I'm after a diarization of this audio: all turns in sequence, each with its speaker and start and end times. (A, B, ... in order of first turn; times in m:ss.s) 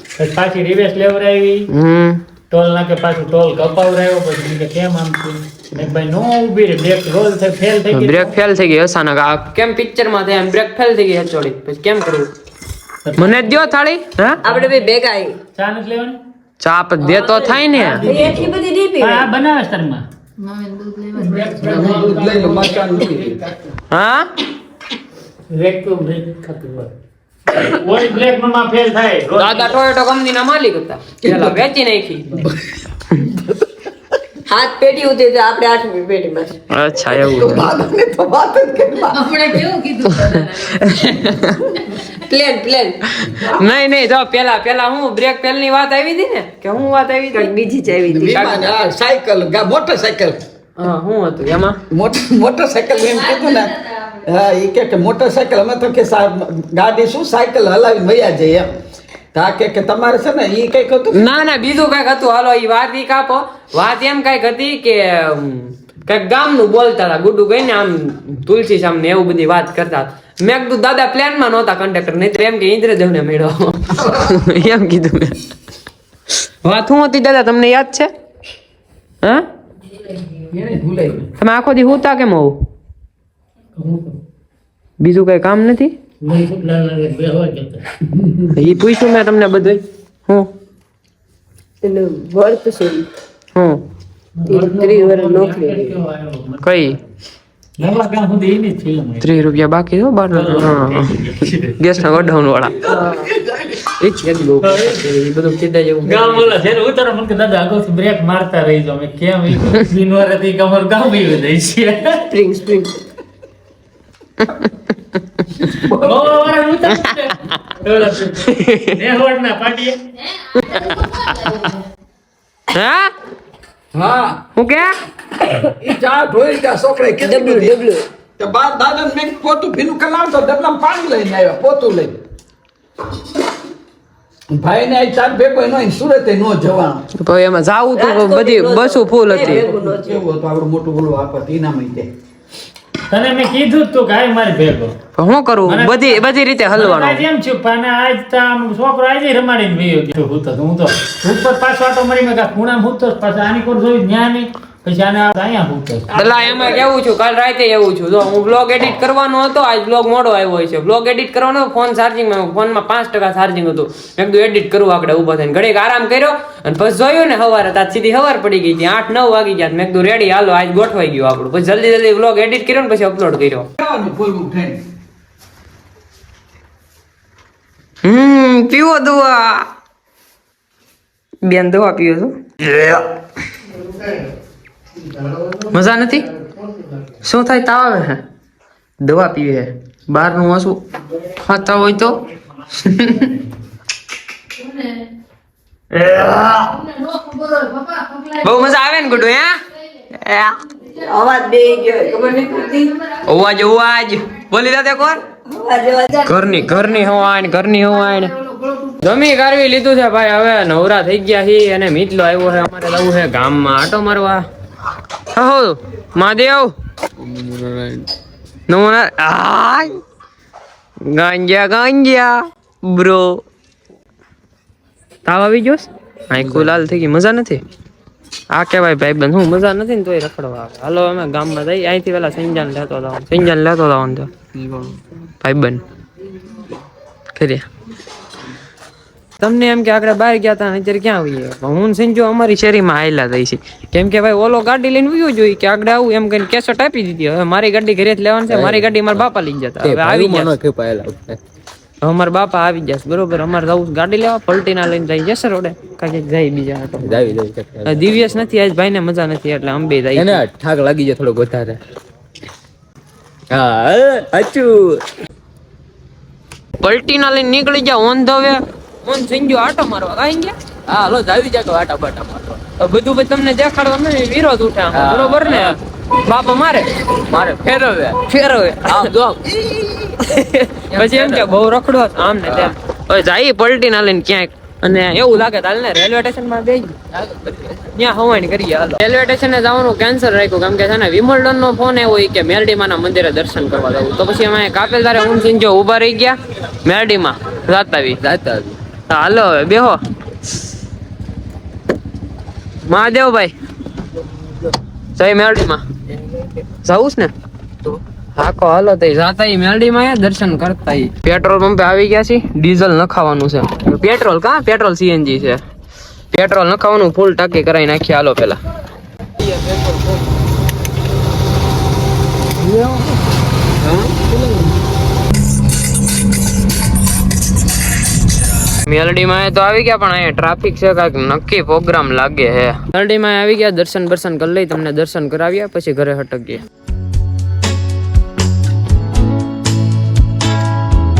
0:00.2-0:01.7 A
0:01.7-0:02.2 B
0:02.5-0:08.4 A
0:07.9-0:12.3 B
0:13.0-0:13.4 A
0:13.2-0:14.4 B
0:14.4-0:15.4 C
0:14.4-0:14.9 A
0:15.5-0:16.2 A
0:16.6-0:18.0 B
0:17.0-0:17.5 C
0:17.5-0:20.0 A
0:18.0-0:19.3 C
0:21.1-0:23.3 A
0:21.6-0:23.4 D
0:23.9-0:24.3 B
0:25.5-0:26.9 A
0:27.5-0:29.8 A
0:29.4-0:32.5 B
0:34.4-0:36.6 C
0:36.7-0:37.7 B
0:37.1-0:39.7 D
0:39.3-0:40.4 C
0:39.9-0:41.8 B
0:42.0-0:43.0 C
0:43.2-0:47.5 B
0:47.3-0:48.7 C
0:48.0-0:50.4 D
0:50.8-0:51.8 B
0:51.9-0:58.7 D
0:59.3-1:01.2 D
1:01.1-1:15.4 B
1:16.6-1:18.1 B
1:20.5-1:21.3 D
1:21.4-1:22.6 B
1:23.8-1:24.1 A
1:25.0-1:25.9 B
1:26.2-1:27.8 A
1:28.5-1:30.5 B
1:31.8-1:33.1 C
1:33.5-1:33.8 B
1:34.4-1:36.6 A
1:34.5-1:36.0 C
1:36.6-1:37.0 B
1:37.8-1:39.4 A
1:39.2-1:42.8 B
1:40.3-1:42.1 A
1:42.8-1:43.3 C
1:43.4-1:43.7 D
1:43.8-1:46.6 B
1:44.6-1:45.0 A
1:46.0-1:52.2 A
1:52.3-1:53.0 C
1:54.4-1:54.7 B
1:55.4-1:55.7 B
1:55.8-2:00.0 A
1:58.4-1:59.0 B
2:00.6-2:01.7 B
2:02.7-2:03.1 B
2:03.9-2:04.4 D
2:04.5-2:04.9 B
2:05.8-2:07.7 D
2:07.2-2:08.0 C
2:08.4-2:12.2 D
2:14.5-2:17.0 D
2:17.2-2:19.6 B
2:17.9-2:20.2 C
2:19.4-2:22.1 D
2:23.1-2:24.9 A
2:25.2-2:27.2 B
2:25.6-2:26.2 A
2:26.7-2:36.1 A
2:36.1-2:53.7 B
2:36.2-2:36.8 C
2:53.8-2:54.8 D
2:58.0-2:59.7 B
3:01.4-3:03.0 B
3:05.2-3:05.5 A
3:05.7-3:06.3 B
3:07.2-3:08.2 B
3:09.0-3:12.2 B
3:12.7-3:13.4 B
3:15.9-3:19.6 B
3:20.2-3:20.6 B
3:20.9-3:23.0 C
3:23.1-3:25.2 B
3:25.5-3:26.4 C
3:26.2-3:34.4 B
3:35.3-3:36.7 B
3:37.2-3:38.0 D
3:38.7-3:40.0 B
3:41.0-3:43.4 B
3:45.2-3:47.6 B
3:46.4-3:46.7 D
3:48.5-3:54.3 B
3:55.4-3:55.8 B
3:57.3-3:57.6 B
3:59.4-4:10.6 B
4:08.5-4:09.1 E
4:09.8-4:11.4 E
4:12.0-4:20.4 B
4:17.0-4:18.1 E
4:20.2-4:21.8 E
4:23.5-4:24.8 E
4:26.8-4:30.5 B
4:30.9-4:32.6 E
4:32.8-4:36.9 B
4:34.9-4:35.7 E
4:37.3-4:38.2 E
4:38.2-4:39.1 B
4:38.9-4:40.2 E
4:40.2-4:47.0 B
4:40.9-4:41.4 E
4:47.2-4:47.6 E
4:47.9-4:58.2 B
4:58.2-4:58.7 E
4:59.1-5:00.0 B
5:02.8-5:03.5 B
5:05.1-5:05.8 B
5:06.8-5:07.3 B
5:07.8-5:15.6 B
5:16.3-5:18.6 B
5:22.6-5:23.1 D
5:23.8-5:24.6 D
5:28.8-5:36.6 B